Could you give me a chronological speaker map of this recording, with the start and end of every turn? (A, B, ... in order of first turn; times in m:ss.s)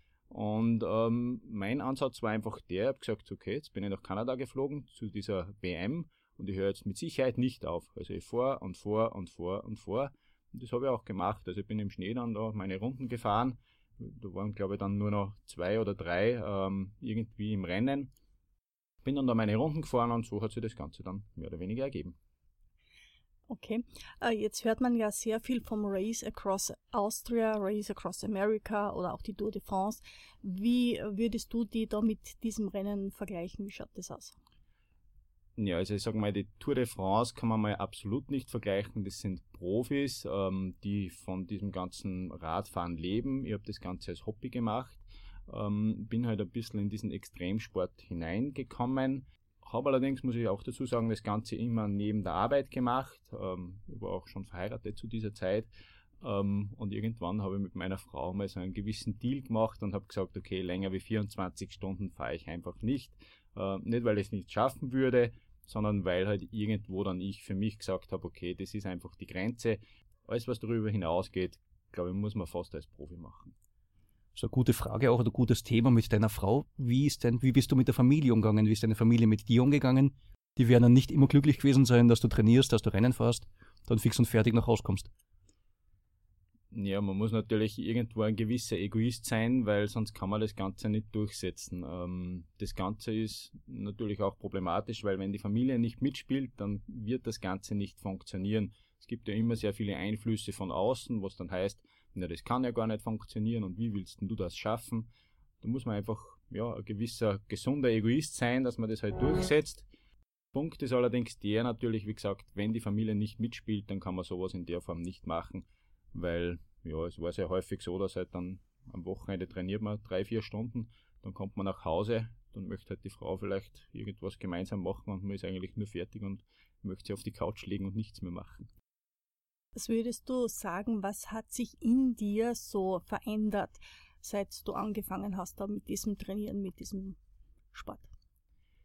0:00.3-0:18.1 A
0:19.0-0:22.2 A
0:23.5-0:34.3 B
0:35.6-0:55.7 A
0:56.2-1:13.5 A
1:14.3-1:25.1 C
1:26.7-1:45.1 A
1:45.6-1:49.8 A
1:50.5-2:08.7 A
2:09.7-2:17.2 B
2:17.7-2:18.1 B